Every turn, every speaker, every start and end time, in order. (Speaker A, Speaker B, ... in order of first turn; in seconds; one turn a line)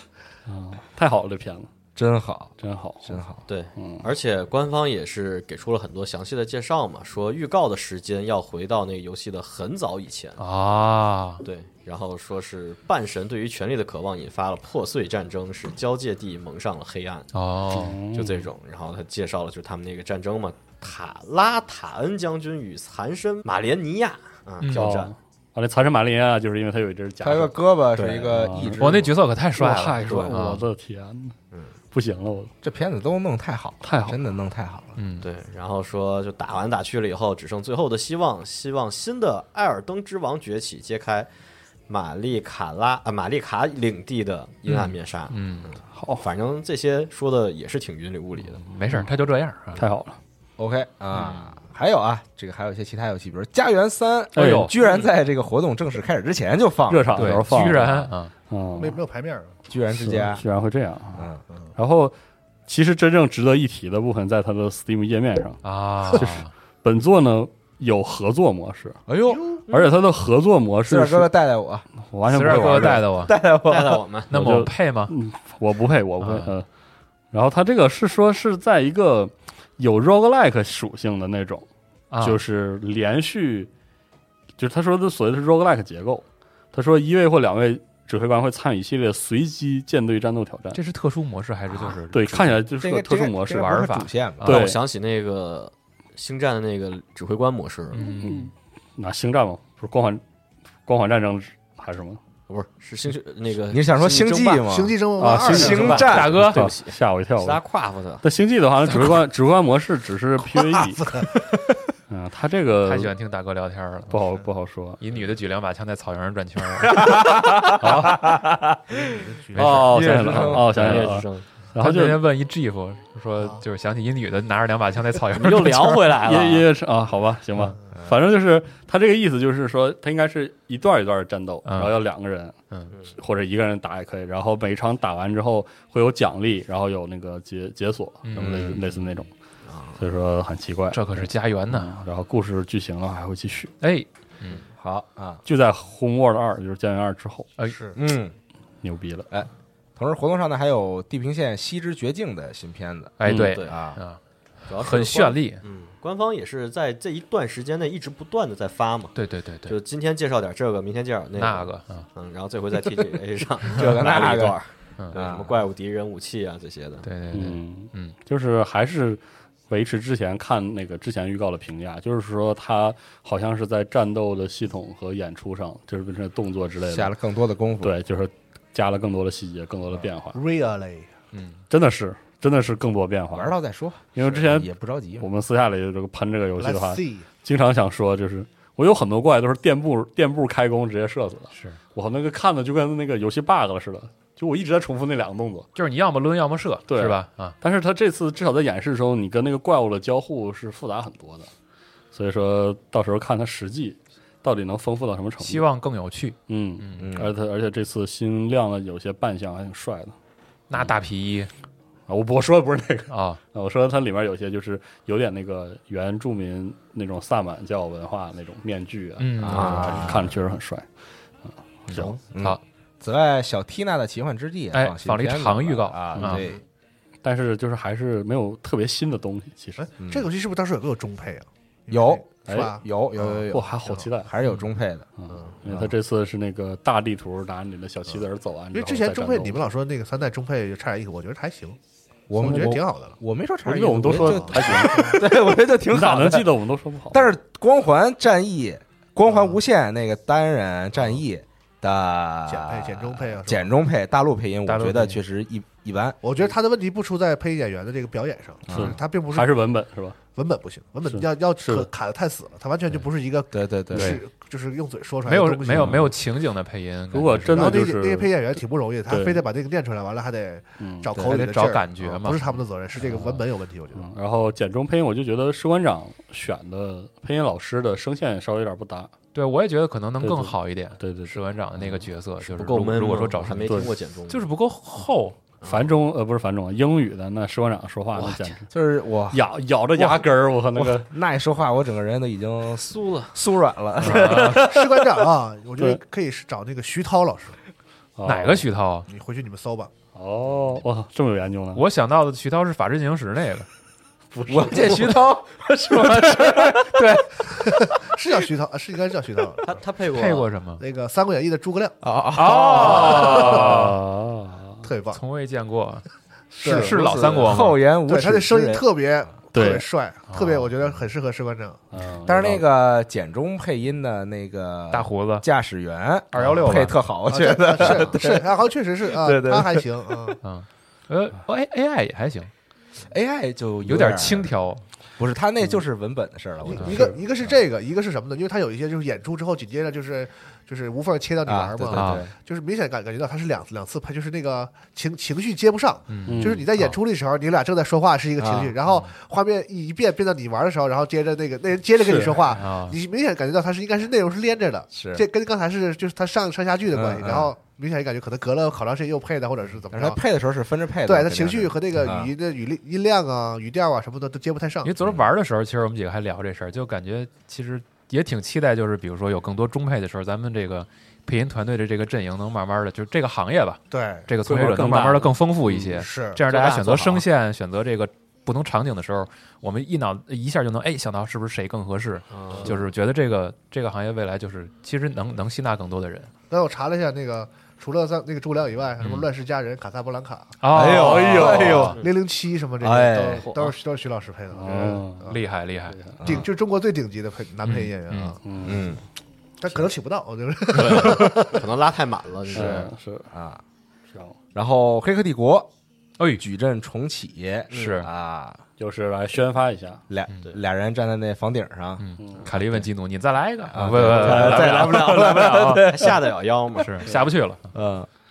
Speaker A: 0.5-1.7
Speaker B: 1.9-2.5
Speaker A: 2.6-3.2
Speaker B: 3.0-3.4
Speaker C: 3.5-10.4
Speaker A: 3.7-4.1
Speaker D: 10.4-11.4
Speaker C: 11.4-17.3
Speaker D: 17.3-18.0
Speaker A: 17.7-18.5
Speaker C: 18.1-25.1
Speaker D: 24.6-24.9
Speaker A: 24.7-27.6
Speaker B: 27.2-29.1
Speaker C: 27.9-28.4
Speaker A: 28.3-28.9
Speaker D: 28.8-30.6
Speaker A: 29.6-31.4
Speaker A: 31.9-32.5
Speaker B: 32.6-35.0
Speaker A: 33.8-34.2
Speaker D: 35.0-35.3
Speaker C: 35.2-41.3
Speaker C: 41.9-48.6
Speaker D: 44.6-45.7
Speaker A: 45.9-46.2
Speaker D: 48.6-49.8
Speaker A: 49.8-50.2
Speaker B: 50.6-57.4
Speaker D: 54.3-54.7
Speaker A: 54.3-54.7
Speaker C: 54.8-55.1
Speaker A: 56.9-59.0
Speaker D: 57.1-58.3
Speaker E: 58.8-59.5
Speaker B: 59.7-60.4
Speaker A: 59.9-62.1
Speaker B: 61.1-61.4
Speaker A: 62.7-69.0
Speaker D: 65.6-66.5
Speaker B: 69.1-69.6
Speaker E: 69.3-69.6
Speaker A: 69.7-71.3
Speaker B: 70.9-74.0
Speaker A: 72.0-73.1
Speaker D: 72.3-73.3
Speaker C: 73.7-74.3
Speaker D: 74.3-75.1
Speaker A: 74.3-76.7
Speaker D: 76.2-76.5
Speaker A: 77.3-81.7
Speaker D: 82.1-82.4
Speaker A: 82.2-83.7
Speaker A: 84.6-90.8
Speaker D: 90.7-92.6
Speaker A: 92.1-93.8
Speaker B: 92.8-94.5
Speaker D: 93.5-94.7
Speaker A: 94.4-94.8
Speaker C: 94.4-98.1
Speaker D: 97.9-98.5
Speaker A: 98.0-100.2
Speaker A: 100.8-102.2
Speaker C: 102.5-104.6
Speaker B: 103.7-106.4
Speaker E: 104.6-106.1
Speaker A: 105.2-107.6
Speaker C: 105.3-108.2
Speaker D: 106.1-106.7
Speaker A: 108.2-111.1
Speaker E: 110.8-111.3
Speaker A: 112.1-113.1
Speaker D: 112.8-114.2
Speaker A: 114.1-115.0
Speaker D: 115.0-117.1
Speaker B: 116.8-119.0
Speaker A: 117.8-118.2
Speaker E: 118.9-119.9
Speaker D: 119.5-121.1
Speaker A: 119.5-122.2
Speaker B: 119.7-120.9
Speaker C: 120.7-121.5
Speaker D: 121.8-126.0
Speaker C: 125.3-126.7
Speaker A: 126.1-132.6
Speaker D: 131.7-132.0
Speaker A: 133.2-139.3
Speaker D: 138.2-138.8
Speaker C: 139.7-140.0
Speaker A: 140.0-143.7
Speaker D: 140.9-141.9
Speaker D: 143.8-144.6
Speaker B: 144.8-145.4
Speaker A: 145.4-147.5
Speaker E: 147.7-148.0
Speaker B: 147.9-148.3
Speaker A: 148.8-149.3
Speaker B: 149.3-154.0
Speaker D: 153.2-154.2
Speaker A: 153.2-153.5
Speaker C: 153.3-153.8
Speaker C: 154.7-167.1
Speaker D: 154.7-155.6
Speaker D: 159.1-159.8
Speaker D: 161.4-162.1
Speaker B: 163.7-164.6
Speaker B: 165.1-165.5
Speaker D: 167.0-168.1
Speaker A: 167.3-177.1
Speaker B: 176.9-177.9
Speaker A: 177.8-180.4
Speaker E: 180.3-181.1
Speaker D: 181.3-181.6
Speaker A: 181.7-183.5
Speaker B: 183.3-185.2
Speaker A: 184.1-195.7
Speaker E: 186.6-187.2
Speaker D: 195.8-197.5
Speaker A: 196.9-201.5
Speaker A: 202.1-205.7
Speaker D: 205.4-207.1
Speaker A: 206.5-210.1
Speaker B: 207.0-207.3
Speaker D: 210.7-211.5
Speaker A: 212.1-220.9
Speaker D: 213.1-213.4
Speaker D: 219.2-219.9
Speaker B: 219.4-220.3
Speaker C: 219.4-220.2
Speaker A: 221.5-222.2
Speaker D: 221.9-222.6
Speaker B: 222.3-226.6
Speaker D: 224.7-226.4
Speaker A: 226.1-226.4
Speaker A: 227.2-229.9
Speaker E: 229.8-233.4
Speaker B: 230.0-230.2
Speaker B: 231.9-235.1
Speaker A: 232.5-232.7
Speaker A: 233.5-234.3
Speaker A: 235.2-239.6
Speaker E: 238.7-241.8
Speaker B: 242.3-246.5
Speaker E: 242.4-243.2
Speaker A: 242.4-242.7
Speaker A: 243.6-245.3
Speaker E: 244.1-245.2
Speaker A: 245.9-247.3
Speaker B: 247.1-256.2
Speaker E: 252.5-253.7
Speaker D: 254.6-255.2
Speaker E: 256.2-259.5
Speaker B: 258.7-258.9
Speaker A: 258.7-260.2
Speaker E: 260.4-266.1
Speaker A: 261.1-261.9
Speaker B: 263.5-264.2
Speaker A: 263.9-264.2
Speaker D: 265.2-267.7
Speaker A: 265.7-266.1
Speaker A: 267.1-268.5
Speaker E: 267.5-274.1
Speaker A: 269.1-269.4
Speaker A: 270.8-271.1
Speaker D: 271.2-272.6
Speaker A: 273.0-273.4
Speaker A: 273.9-279.1
Speaker D: 279.3-285.4
Speaker A: 280.2-281.4
Speaker C: 282.4-284.5
Speaker A: 283.5-283.9
Speaker C: 285.6-285.9
Speaker A: 285.6-288.7
Speaker C: 288.1-288.5
Speaker B: 288.7-289.4
Speaker A: 289.3-291.1
Speaker B: 290.0-290.2
Speaker B: 290.8-294.9
Speaker C: 292.8-293.4
Speaker D: 294.0-294.7
Speaker E: 294.4-297.6
Speaker A: 298.2-298.7
Speaker D: 298.2-299.1
Speaker E: 299.1-299.9
Speaker A: 300.1-301.8
Speaker D: 301.7-303.7
Speaker A: 304.3-305.2
Speaker B: 304.5-307.1
Speaker D: 306.0-307.3
Speaker E: 307.6-309.7
Speaker C: 309.6-310.5
Speaker D: 310.1-310.8
Speaker E: 310.8-312.0
Speaker B: 312.0-313.6
Speaker D: 312.3-313.9
Speaker E: 312.5-313.6
Speaker A: 312.8-314.8
Speaker E: 314.8-315.2
Speaker D: 315.1-316.0
Speaker D: 316.6-317.8
Speaker E: 316.6-317.4
Speaker B: 316.7-318.8
Speaker E: 318.1-321.8
Speaker A: 319.5-319.9
Speaker D: 320.3-320.7
Speaker A: 321.9-322.6
Speaker B: 322.2-328.5
Speaker D: 324.9-325.4
Speaker D: 326.3-326.9
Speaker E: 327.3-330.4
Speaker B: 329.1-329.8
Speaker D: 330.4-332.5
Speaker B: 333.1-334.5
Speaker D: 333.8-334.8
Speaker B: 335.2-337.1
Speaker E: 336.6-360.2
Speaker B: 341.4-342.3
Speaker D: 341.9-342.2
Speaker D: 346.1-346.9
Speaker A: 346.3-346.6
Speaker B: 348.4-348.7
Speaker A: 352.0-352.4
Speaker D: 352.5-353.0
Speaker B: 354.9-355.2
Speaker B: 356.9-357.5
Speaker B: 359.9-362.3
Speaker E: 361.0-364.9
Speaker D: 364.8-386.3
Speaker E: 373.9-374.3
Speaker A: 374.4-375.4
Speaker E: 375.9-376.4
Speaker C: 376.5-377.2
Speaker C: 382.3-382.8
Speaker E: 386.5-390.6
Speaker D: 389.0-389.3
Speaker D: 390.6-392.0
Speaker B: 390.7-392.0
Speaker A: 391.0-391.8
Speaker C: 391.9-392.1
Speaker E: 391.9-395.4
Speaker B: 392.8-393.5
Speaker A: 394.5-395.3
Speaker D: 395.3-395.9
Speaker A: 395.9-396.2
Speaker E: 396.2-398.4
Speaker D: 397.6-398.4
Speaker A: 398.4-398.9
Speaker B: 398.6-399.0
Speaker E: 399.6-401.7
Speaker C: 400.7-402.9
Speaker A: 402.5-403.3
Speaker B: 403.3-403.6
Speaker B: 404.5-405.7
Speaker B: 406.4-408.6
Speaker D: 407.7-408.1
Speaker C: 407.7-408.0
Speaker A: 408.8-410.0
Speaker B: 410.1-412.8
Speaker D: 412.0-415.9
Speaker A: 412.2-412.5
Speaker B: 413.7-416.1
Speaker A: 414.0-415.1
Speaker C: 414.3-417.1
Speaker D: 416.8-417.7
Speaker B: 417.7-418.1